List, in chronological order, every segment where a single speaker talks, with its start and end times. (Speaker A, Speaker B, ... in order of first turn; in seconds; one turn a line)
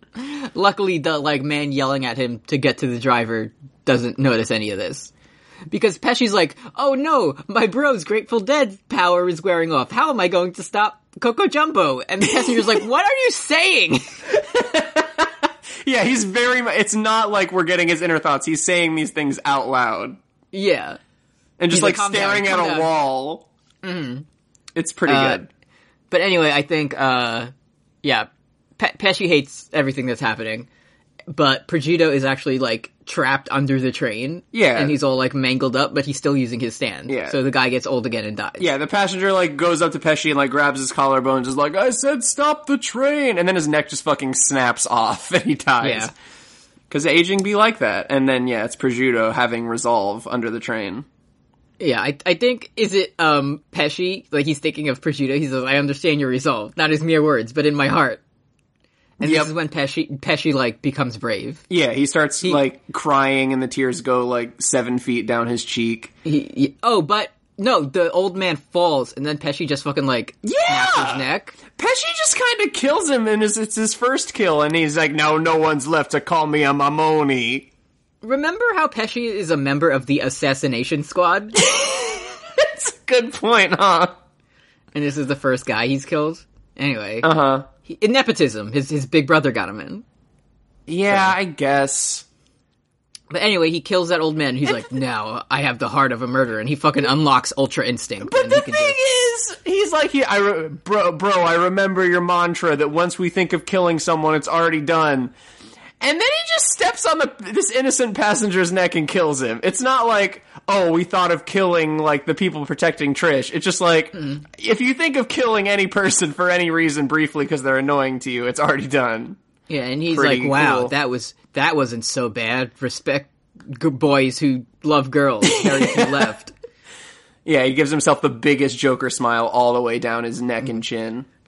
Speaker A: 0.1-5.1
Speaker A: 5.7-14.2
Speaker B: 14.3-15.3
Speaker B: 15.8-20.2
Speaker A: 20.5-21.0
Speaker B: 21.6-23.4
Speaker A: 21.7-22.9
Speaker A: 23.8-24.2
Speaker B: 24.7-25.5
Speaker A: 25.1-25.4
Speaker A: 26.1-27.5
Speaker A: 28.0-30.7
Speaker A: 31.3-38.7
Speaker B: 34.5-35.0
Speaker B: 37.1-37.4
Speaker B: 38.6-46.1
Speaker A: 45.8-46.1
Speaker B: 46.9-51.0
Speaker A: 51.8-58.2
Speaker A: 59.2-61.6
Speaker B: 59.2-59.5
Speaker B: 61.7-66.1
Speaker A: 66.2-71.6
Speaker B: 70.4-71.2
Speaker B: 71.7-77.7
Speaker A: 78.2-81.6
Speaker B: 81.6-84.1
Speaker A: 84.9-87.3
Speaker B: 87.2-87.7
Speaker A: 87.8-90.0
Speaker B: 90.9-92.2
Speaker A: 91.1-91.3
Speaker A: 93.3-99.0
Speaker B: 98.2-105.3
Speaker B: 106.0-119.4
Speaker A: 114.2-114.4
Speaker A: 119.7-126.5
Speaker B: 120.1-120.9
Speaker B: 125.6-126.1
Speaker B: 127.4-131.3